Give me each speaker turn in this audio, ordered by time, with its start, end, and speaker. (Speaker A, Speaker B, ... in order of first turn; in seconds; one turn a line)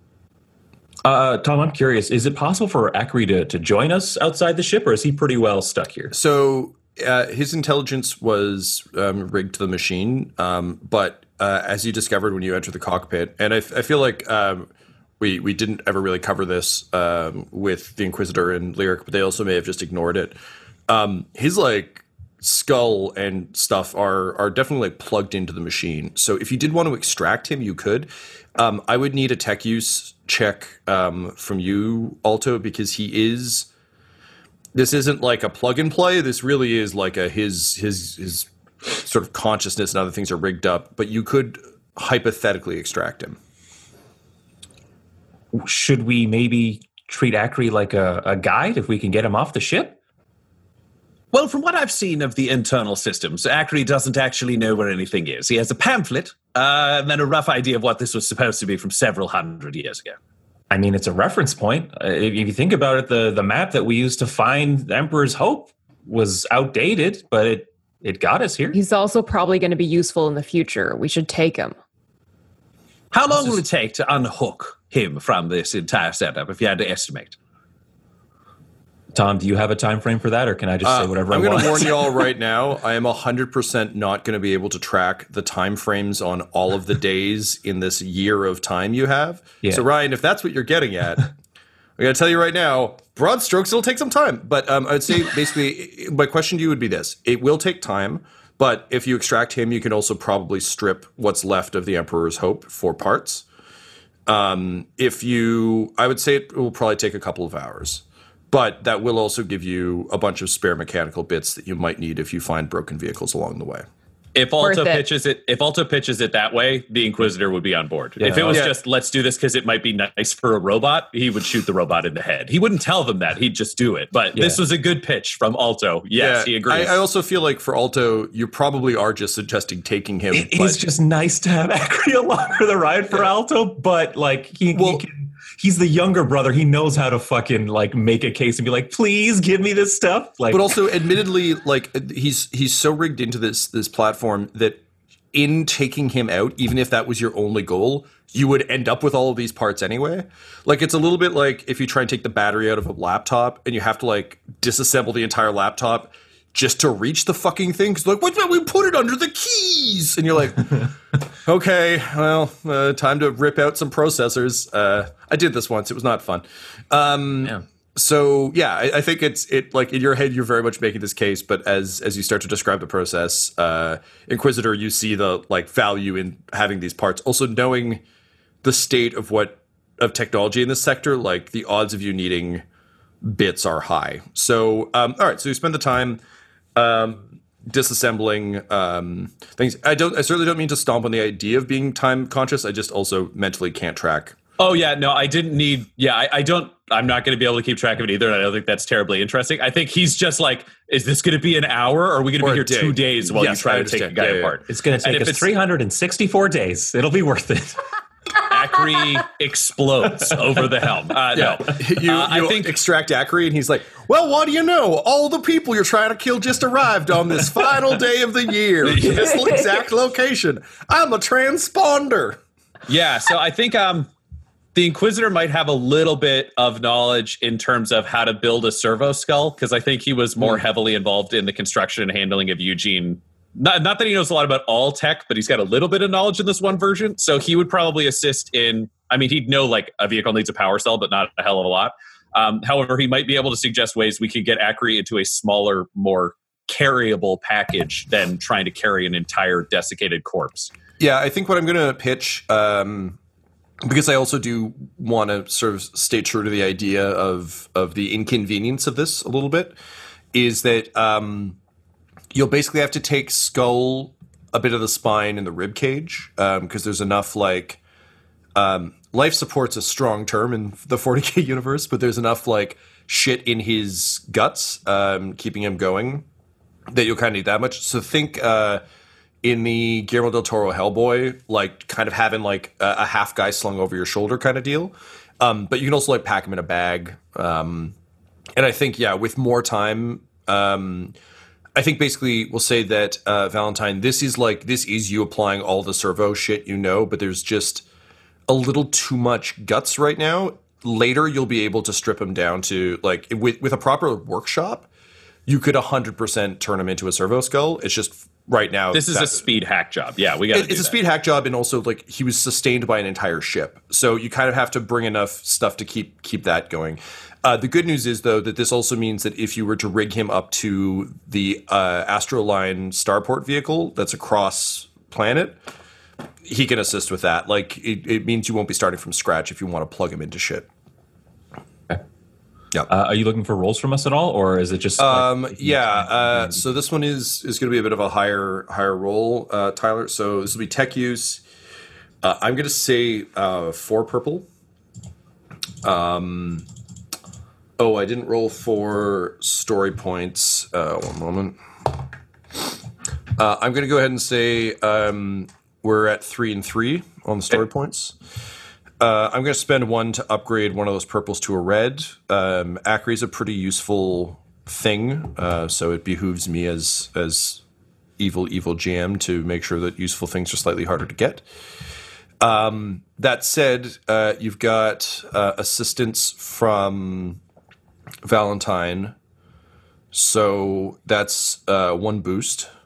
Speaker A: 1.0-6.1
Speaker B: 6.1-14.7
Speaker B: 15.2-33.7
Speaker B: 34.7-43.4
Speaker A: 45.5-50.0
Speaker C: 51.3-60.1
Speaker A: 60.7-68.8
Speaker D: 68.7-71.7
Speaker C: 73.1-77.3
Speaker A: 79.1-82.2
Speaker B: 80.8-91.3
Speaker B: 92.0-103.4
Speaker B: 104.3-113.8
Speaker E: 114.3-127.0
Speaker D: 114.6-115.0
Speaker A: 118.2-118.6
Speaker B: 118.5-118.8
Speaker A: 124.3-124.6
Speaker B: 126.2-130.8
Speaker A: 130.3-140.8
Speaker B: 134.7-135.0
Speaker B: 140.5-144.8
Speaker B: 145.3-160.9
Speaker B: 161.4-178.0
Speaker B: 178.6-182.6
Speaker B: 183.2-186.2
Speaker B: 186.7-194.3
Speaker E: 194.6-205.5
Speaker B: 202.4-204.6
Speaker A: 204.7-207.8
Speaker E: 208.5-212.8
Speaker B: 211.3-222.4
Speaker E: 218.8-219.3
Speaker E: 222.9-224.1
Speaker E: 224.7-250.7
Speaker B: 251.0-253.2
Speaker B: 253.8-259.8
Speaker B: 260.3-261.6
Speaker B: 262.3-267.8
Speaker B: 268.6-276.2
Speaker B: 276.9-278.8
Speaker B: 279.4-287.9
Speaker B: 288.6-291.1
Speaker B: 291.8-297.8
Speaker B: 298.5-304.9
Speaker B: 305.5-309.4
Speaker E: 308.9-311.0
Speaker B: 310.5-325.6
Speaker B: 326.4-330.7
Speaker A: 332.9-336.6
Speaker B: 335.0-341.4
Speaker B: 342.2-344.4
Speaker B: 345.8-346.6
Speaker B: 347.8-351.6
Speaker B: 353.4-358.1
Speaker B: 359.0-367.6
Speaker B: 368.2-371.4
Speaker B: 372.4-377.4
Speaker B: 378.2-379.1
Speaker B: 380.1-382.7